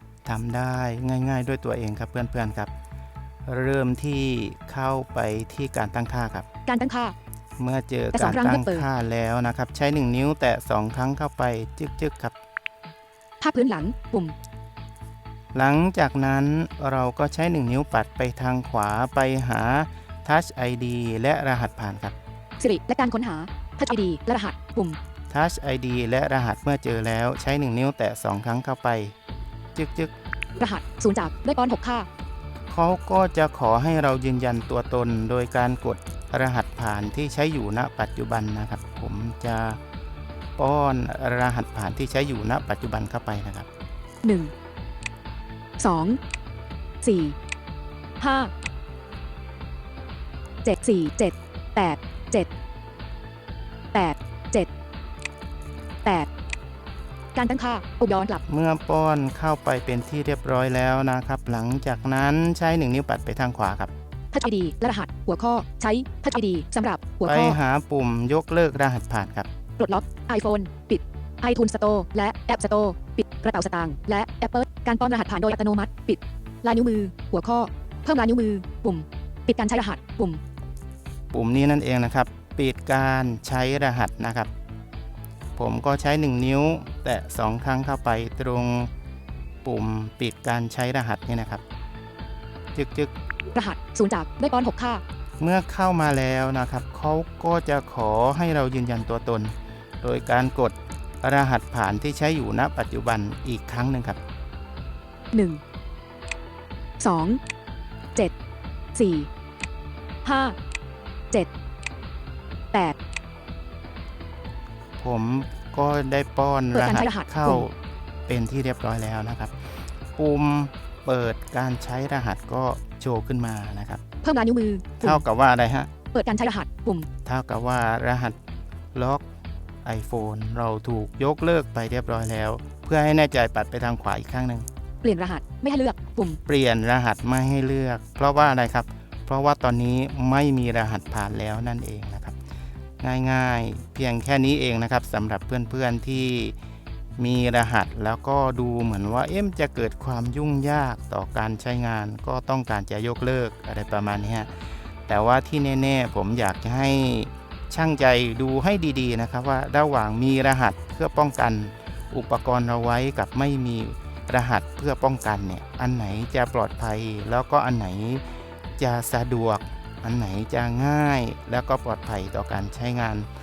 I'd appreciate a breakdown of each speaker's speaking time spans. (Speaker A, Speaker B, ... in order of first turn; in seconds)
Speaker A: 0.2-2.7, 3.5-6.5, 7.6-12.3, 15.5-22.2, 25.3-29.1, 29.8-30.1, 32.7-39.8, 40.6-43.7, 58.5-63.9, 67.2-69.5, 81.3-84.5, 85.6-88.9, 89.6-91.6, 92.8-93.1, 95.4-104.2, 115.0-117.8, 118.3-119.5, 120.2-124.0, 125.0-125.9, 127.2-128.4, 128.9-129.2, 129.8-134.7, 136.5-142.3, 143.0-146.6, 147.2-168.2, 168.8-173.3
Speaker B: 6.7-7.2, 8.1-8.9, 13.4-14.3, 22.6-25.0, 30.6-32.1, 44.2-44.5, 45.8-46.2, 47.0-47.4, 48.2-48.5, 50.6-52.5, 53.9-54.7, 56.0-56.3, 57.4-58.4, 64.3-67.6, 69.8-80.4, 93.5-95.0, 105.3-105.6, 107.0-107.4, 109.0-109.3, 110.2-110.6, 116.7-117.7, 124.2-125.2, 126.1-127.1, 135.0-136.4